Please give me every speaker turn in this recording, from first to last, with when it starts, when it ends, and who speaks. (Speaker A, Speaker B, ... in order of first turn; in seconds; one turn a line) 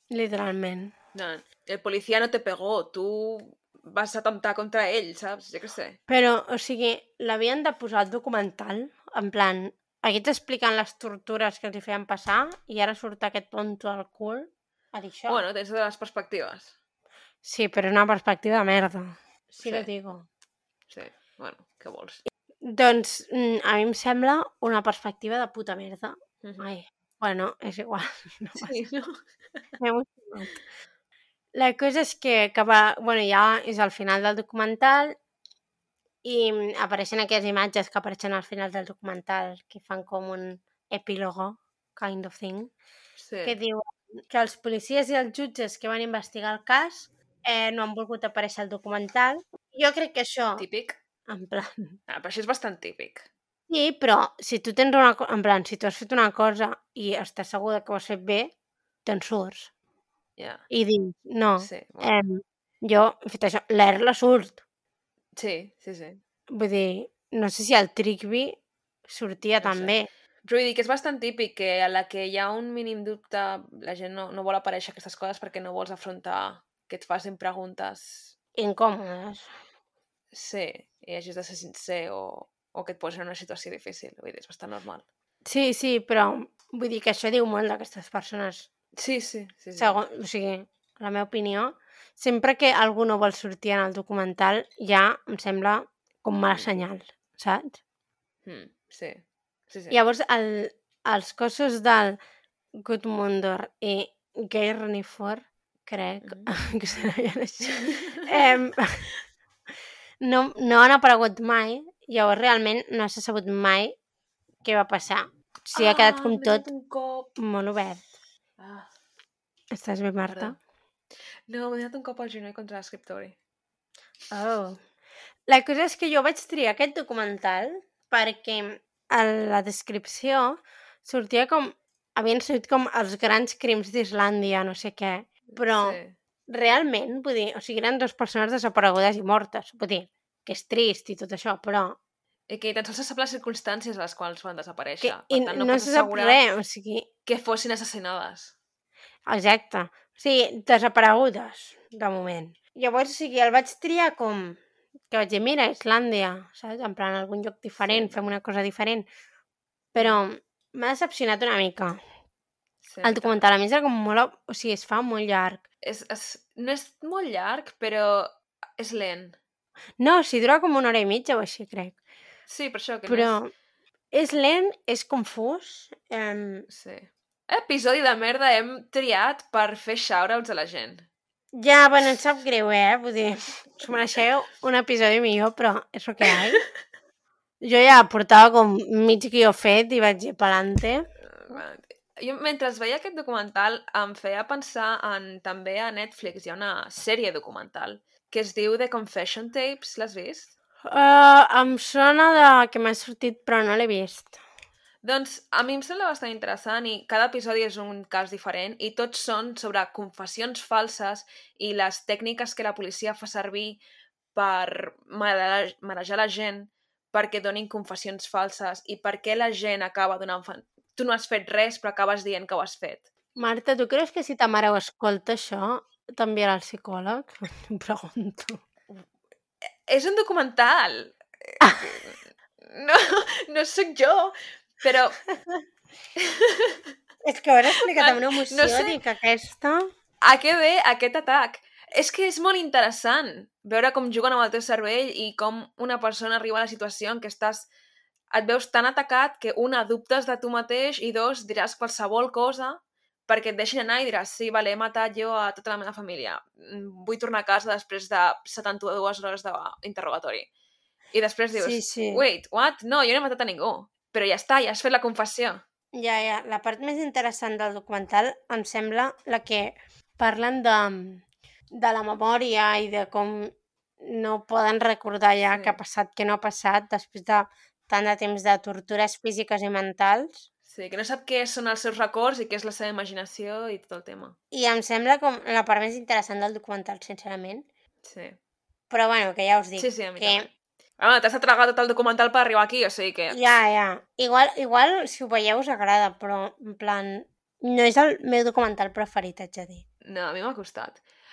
Speaker A: 0.1-0.9
Speaker B: 1.1-6.0
Speaker A: 6.1-15.4
Speaker B: 15.3-16.7
Speaker A: 17.4-20.3
Speaker B: 19.6-19.9
Speaker B: 20.9-22.2
Speaker A: 22.6-28.8
Speaker B: 28.6-29.2
Speaker A: 29.8-30.6
Speaker A: 31.6-35.2
Speaker A: 36.2-42.7
Speaker B: 43.2-43.6
Speaker A: 43.4-50.7
Speaker B: 50.6-51.0
Speaker A: 51.3-52.0
Speaker B: 52.1-53.3
Speaker A: 53.7-58.5
Speaker A: 59.0-59.7
Speaker B: 60.4-60.6
Speaker A: 60.7-64.6
Speaker B: 61.6-62.1
Speaker B: 65.4-66.2
Speaker A: 66.5-70.1
Speaker B: 69.6-69.9
Speaker B: 70.5-78.4
Speaker A: 78.6-79.5
Speaker B: 80.3-85.0
Speaker A: 85.5-88.7
Speaker B: 89.0-90.0
Speaker A: 89.8-97.8
Speaker B: 98.5-100.0
Speaker A: 99.9-102.2
Speaker A: 102.8-109.1
Speaker B: 106.2-106.5
Speaker A: 110.2-114.0
Speaker A: 114.6-116.7
Speaker B: 115.8-117.3
Speaker A: 117.4-118.0
Speaker B: 118.6-118.9
Speaker A: 119.7-120.6
Speaker B: 120.3-120.6
Speaker B: 121.5-123.4
Speaker A: 124.3-124.8
Speaker A: 125.5-142.0
Speaker B: 135.5-136.2
Speaker B: 142.5-146.4
Speaker A: 145.0-147.1
Speaker B: 147.3-148.5
Speaker A: 149.3-154.6
Speaker A: 155.1-159.1
Speaker B: 157.8-158.2
Speaker A: 159.9-162.0
Speaker B: 160.0-160.2
Speaker B: 162.8-163.4
Speaker A: 163.0-165.6
Speaker B: 165.8-169.4
Speaker A: 170.0-172.0
Speaker B: 172.5-173.4
Speaker A: 173.1-173.5
Speaker A: 174.1-176.7
Speaker B: 176.7-181.1
Speaker A: 181.6-186.6
Speaker A: 187.6-191.1
Speaker B: 191.3-200.5
Speaker A: 200.9-204.4
Speaker B: 205.0-213.8
Speaker B: 214.3-223.1
Speaker A: 223.4-228.6
Speaker B: 229.7-235.2
Speaker A: 231.6-231.9
Speaker B: 236.2-236.8
Speaker A: 237.2-239.9
Speaker B: 237.8-238.9
Speaker B: 240.2-247.7
Speaker B: 248.3-260.5
Speaker B: 261.1-265.6
Speaker A: 261.6-262.2
Speaker A: 265.9-280.4
Speaker B: 275.5-275.8
Speaker B: 280.7-284.4
Speaker A: 284.5-287.7
Speaker B: 288.0-288.4
Speaker A: 288.9-290.5
Speaker B: 289.8-293.4
Speaker A: 293.3-299.9
Speaker B: 300.1-301.0